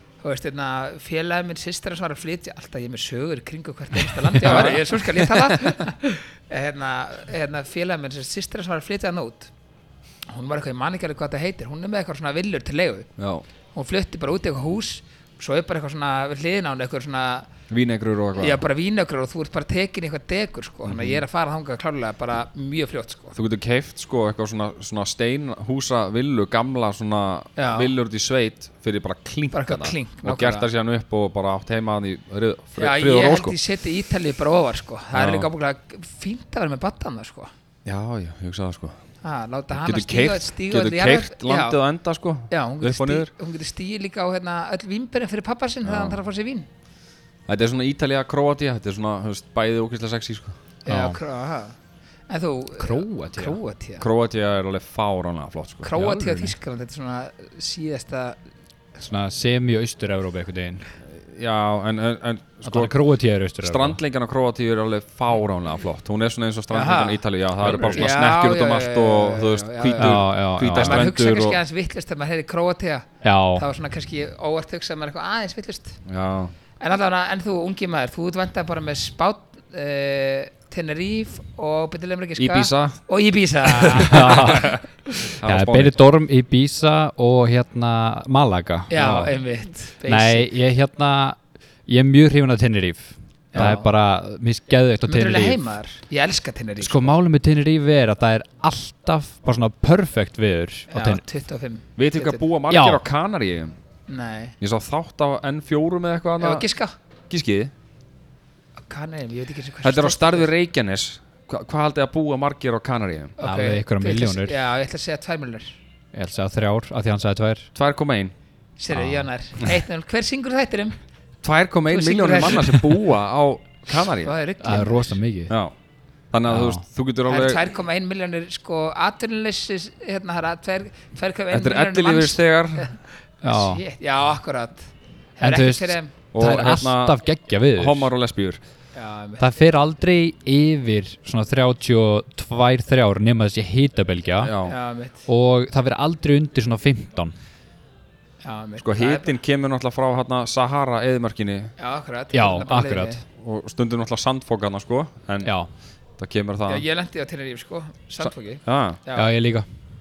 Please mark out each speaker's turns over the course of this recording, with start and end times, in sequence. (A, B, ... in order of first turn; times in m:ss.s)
0:00.2-0:09.5 A
0:04.3-0:05.8 B
0:10.3-0:13.1 A
0:13.2-0:13.4 B
0:13.7-0:17.5 A
0:17.7-0:18.6 B
0:18.4-0:23.4 A
0:20.8-0:21.2 B
0:23.3-0:33.6 B
0:27.6-0:27.9 A
0:29.5-0:30.7 A
0:32.8-0:37.5 A
0:35.1-0:35.5 B
0:37.8-0:39.0 B
0:39.2-0:41.8 A
0:39.7-0:43.3 B
0:42.5-0:46.7 A
0:45.8-0:46.2 B
0:47.5-0:50.6 B
0:50.8-0:51.8 A
0:50.9-0:51.2 C
0:52.3-0:54.0 A
0:52.8-0:53.6 C
0:54.0-0:56.0 B
0:55.8-0:58.4 A
0:55.9-0:56.5 C
0:59.0-1:00.8 C
1:01.1-1:02.9 B
1:02.6-1:04.0 C
1:03.6-1:11.6 B
1:06.7-1:16.0 A
1:07.6-1:08.1 C
1:10.0-1:11.1 C
1:13.2-1:13.6 C
1:16.0-1:16.5 B
1:16.8-1:25.2 A
1:22.4-1:23.0 B
1:23.6-1:24.8 B
1:24.0-1:24.7 C
1:25.4-1:26.0 B
1:25.4-1:29.4 C
1:28.9-1:30.5 A
1:30.0-1:35.6 C
1:33.5-1:33.9 A
1:35.0-1:37.2 A
1:36.8-1:41.2 C
1:40.9-1:42.4 A
1:42.0-1:43.8 B
1:42.7-1:43.0 C
1:44.1-1:44.6 A
1:44.6-1:46.7 B
1:46.4-1:47.0 A
1:47.3-1:47.7 B
1:48.8-1:50.5 A
1:49.8-1:53.3 B
1:53.4-1:55.8 A
1:53.4-1:54.6 C
1:56.1-1:57.7 C
1:57.7-1:58.3 B
1:58.8-2:01.0 A
1:58.9-1:59.3 C
2:01.4-2:04.3 B
2:01.9-2:02.9 A
2:04.2-2:05.2 A
2:04.6-2:05.5 C
2:05.5-2:05.7 B
2:06.3-2:07.6 B
2:06.5-2:06.8 C
2:07.3-2:16.1 A
2:11.5-2:12.9 B
2:13.4-2:13.8 C
2:15.4-2:18.1 C
2:16.3-2:17.2 B
2:17.8-2:18.6 B
2:18.9-2:19.4 A
2:19.4-2:24.5 C
2:24.4-2:24.7 B
2:24.6-2:25.3 A
2:25.2-2:27.3 C
2:28.4-2:29.3 A
2:28.8-2:31.7 B
2:31.8-2:33.2 A
2:32.3-2:33.2 C
2:33.4-2:35.5 B
2:35.4-2:35.7 C
2:36.2-2:36.8 B
2:36.6-2:39.3 A
2:38.2-2:39.0 B
2:39.2-2:39.6 C